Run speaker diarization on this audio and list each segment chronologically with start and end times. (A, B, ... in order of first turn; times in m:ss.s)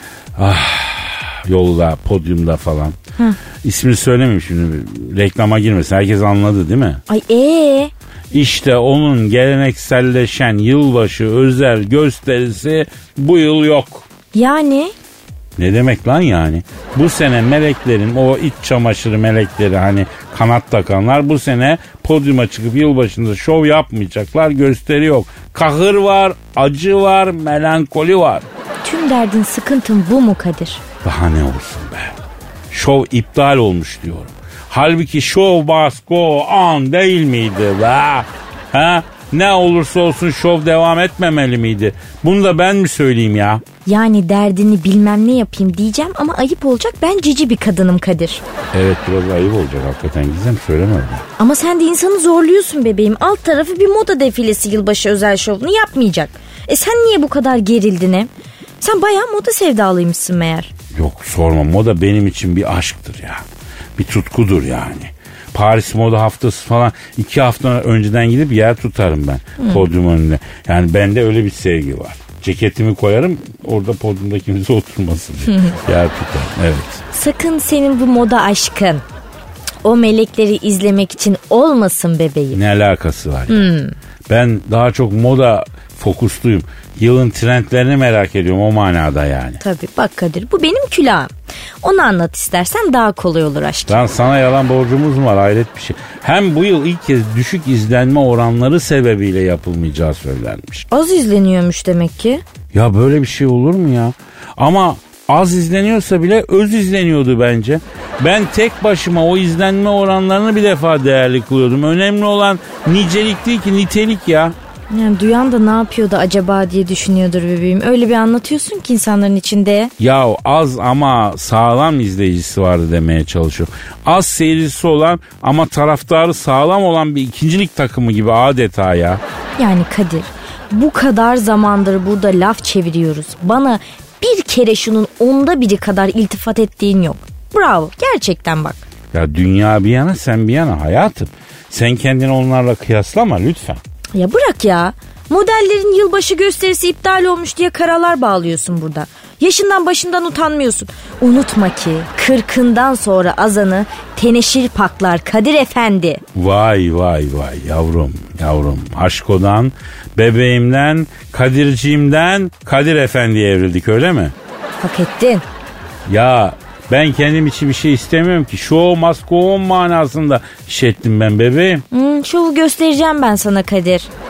0:00.4-0:03.0 A
0:03.6-0:07.0 A
0:07.1-0:07.9 B
0:08.3-0:14.0 A
0:14.3-0:14.9 B
0:15.6-0:28.4 A
0:28.8-0:30.8 B
0:31.0-0:32.2 A
0:32.7-0:43.6 A
0:43.8-0:48.4 B
0:48.7-0:51.2 A
0:51.4-1:00.7 B
1:00.9-1:03.4 A
1:04.0-1:17.0 A
1:09.6-1:09.8 B
1:17.1-1:19.0 B
1:19.8-1:22.6 B
1:22.5-1:23.7 A
1:23.5-1:23.9 B
1:24.3-1:29.6 A
1:29.6-1:34.0 B
1:33.9-1:40.8 A
1:40.9-1:42.4 B
1:42.7-1:54.5 A
1:54.9-1:59.9 B
2:00.0-2:09.2 A
2:09.6-2:18.8 B
2:19.1-2:23.8 A
2:24.1-2:36.2 B
2:36.3-2:44.3 A
2:44.8-2:45.4 B
2:46.0-2:51.8 A
2:51.9-2:54.1 B